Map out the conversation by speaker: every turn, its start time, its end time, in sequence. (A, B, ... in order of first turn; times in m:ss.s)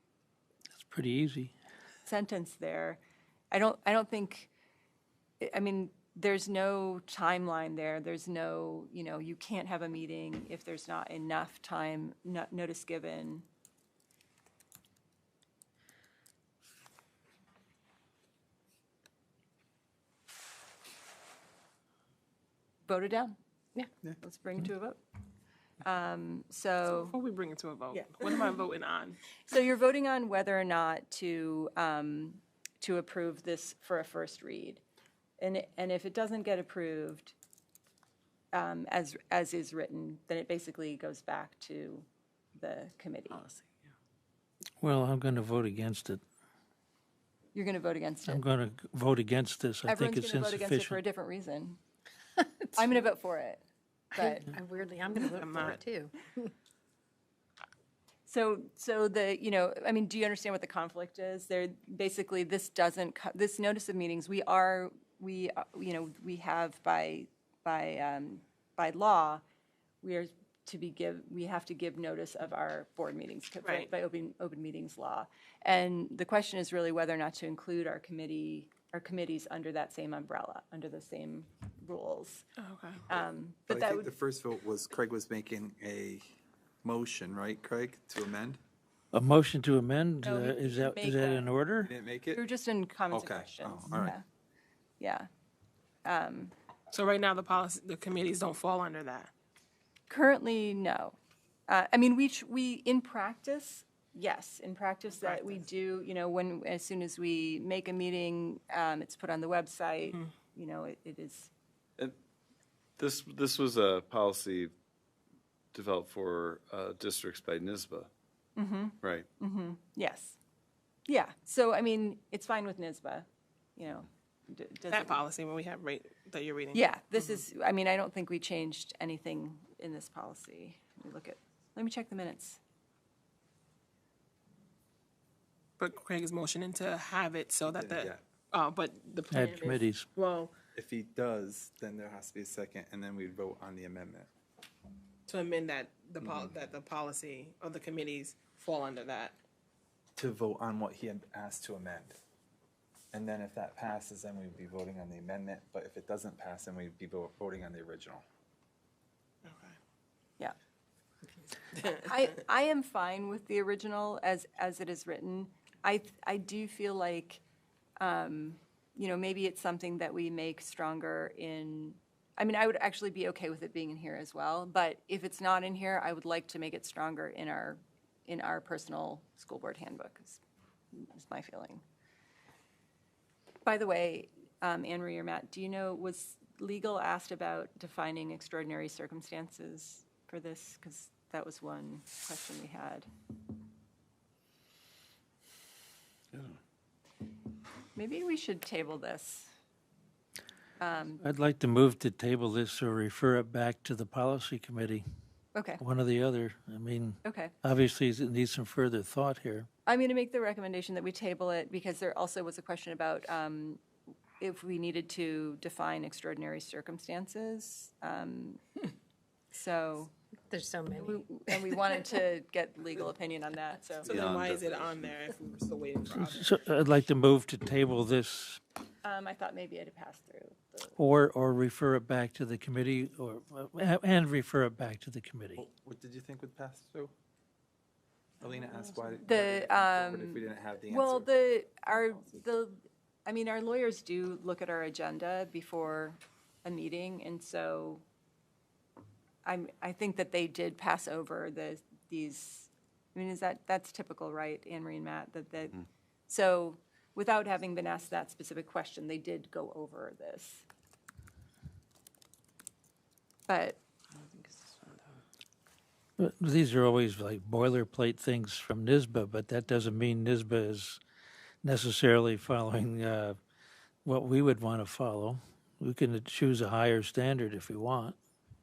0:00.8-0:01.5 A
0:02.1-0:03.0 B
0:03.5-0:04.5 B
0:05.4-0:13.5 B
0:22.8-0:23.4 B
0:24.2-0:25.0 B
0:25.8-0:27.2 B
0:26.9-0:29.2 C
0:29.4-0:34.8 B
0:35.4-0:37.3 B
0:38.5-0:43.4 B
0:44.8-0:46.2 A
0:47.5-0:48.4 B
0:48.3-0:51.0 A
0:49.9-0:51.8 B
0:52.7-0:53.6 B
0:54.1-0:54.5 B
0:54.2-0:56.5 D
0:55.3-0:55.8 C
0:58.3-1:09.4 B
1:10.0-1:22.4 B
1:22.6-1:23.0 C
1:23.1-1:24.1 B
1:23.7-1:26.2 E
1:26.8-1:28.6 E
1:29.1-1:31.9 A
1:30.2-1:31.5 B
1:31.8-1:32.4 E
1:32.3-1:34.2 B
1:33.1-1:34.2 E
1:35.0-1:35.3 B
1:36.0-1:36.5 B
1:36.9-1:39.3 C
1:40.1-1:41.2 B
1:41.7-1:51.5 B
1:45.2-1:45.6 C
1:53.0-1:54.7 F
1:55.7-1:58.1 F
1:58.6-2:00.4 B
1:59.0-1:59.3 F
2:01.1-2:05.2 B
2:04.9-2:06.9 C
2:06.7-2:12.6 B
2:15.8-2:20.5 C
2:17.7-2:18.2 E
2:19.3-2:20.1 A
2:20.8-2:24.3 E
2:25.3-2:29.4 C
2:30.2-2:32.2 E
2:33.1-2:38.2 E
2:39.4-2:39.8 C
2:41.8-2:47.4 B
2:48.0-3:00.4 B
3:00.9-3:01.8 B
3:03.6-3:13.1 B
3:18.0-3:19.5 B
3:20.8-3:21.2 B
3:21.2-3:25.0 A
3:25.5-3:25.8 B
3:25.8-3:29.7 A
3:27.2-3:27.5 B
3:29.9-3:33.8 B
3:34.4-3:38.6 B
3:39.5-3:40.1 B
3:40.5-3:41.3 D
3:41.0-3:44.1 B
3:44.0-3:46.5 C
3:44.1-3:44.8 F
3:46.2-3:48.6 A
3:49.0-3:51.0 B
3:51.0-3:55.6 A
3:55.6-3:57.1 E
3:58.4-4:01.3 E
3:59.2-4:08.0 B
4:09.4-4:20.6 B
4:23.5-4:23.8 B
4:26.2-4:31.0 A
4:31.6-4:33.4 A
4:34.0-4:38.2 A